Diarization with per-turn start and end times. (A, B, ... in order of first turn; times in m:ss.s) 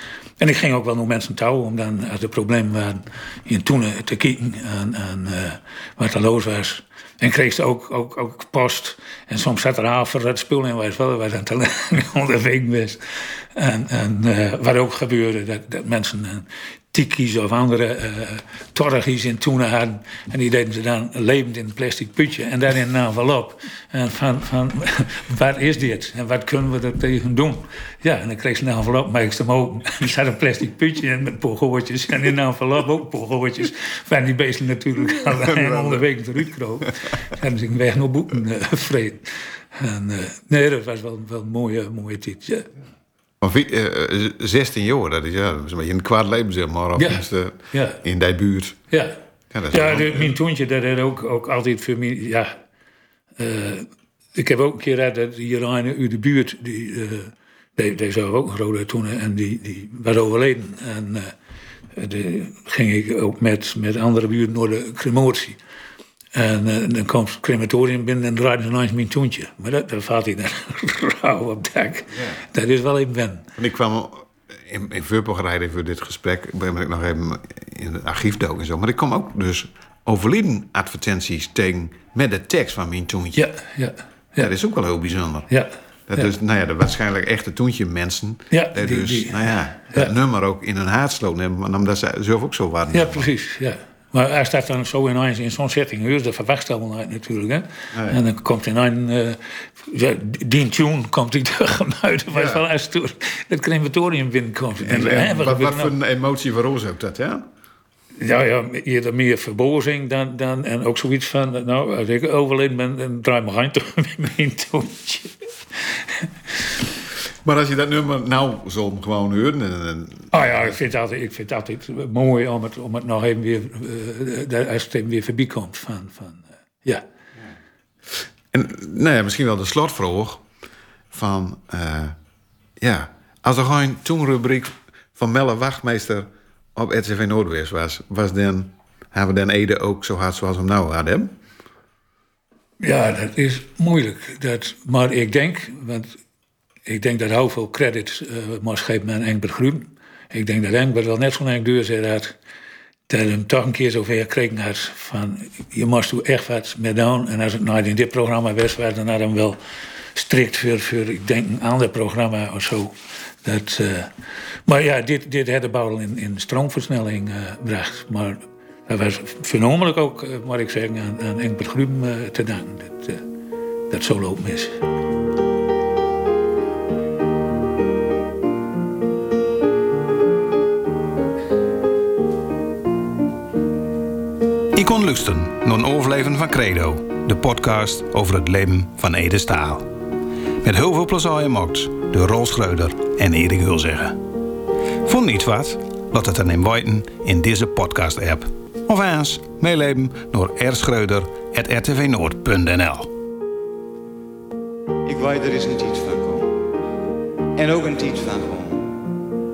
0:00.4-0:42.7 A
0:35.3-0:36.1 B
0:43.4-0:48.8 B
0:47.0-0:48.0 A
0:48.9-0:49.2 A
0:49.5-0:50.3 B
0:49.7-0:52.6 A
0:53.4-1:01.3 A
1:02.0-1:05.6 A
1:06.3-1:13.5 A
1:12.1-1:12.4 B
1:13.6-1:23.4 B
1:23.3-1:24.5 A
1:24.4-1:25.5 B
1:25.5-1:26.3 A
1:26.1-1:33.3 B
1:28.5-1:30.1 A
1:32.9-1:45.9 A
1:37.9-1:38.2 B
1:42.3-1:42.6 B
1:44.8-1:47.5 B
1:48.2-1:56.3 A
1:57.4-2:00.4 B
2:00.3-2:07.0 A
2:08.5-2:10.4 B
2:11.1-2:12.2 B
2:12.8-2:21.3 B
2:22.8-2:26.1 A
2:26.9-2:32.3 A
2:33.1-2:39.6 A
2:40.2-2:42.9 A
2:43.4-2:44.1 A
2:44.7-2:53.2 A
2:53.9-2:54.8 A
3:04.7-3:09.9 B
3:10.6-3:14.2 B
3:15.0-3:23.1 B
3:25.0-3:26.6 C
3:27.6-3:29.0 C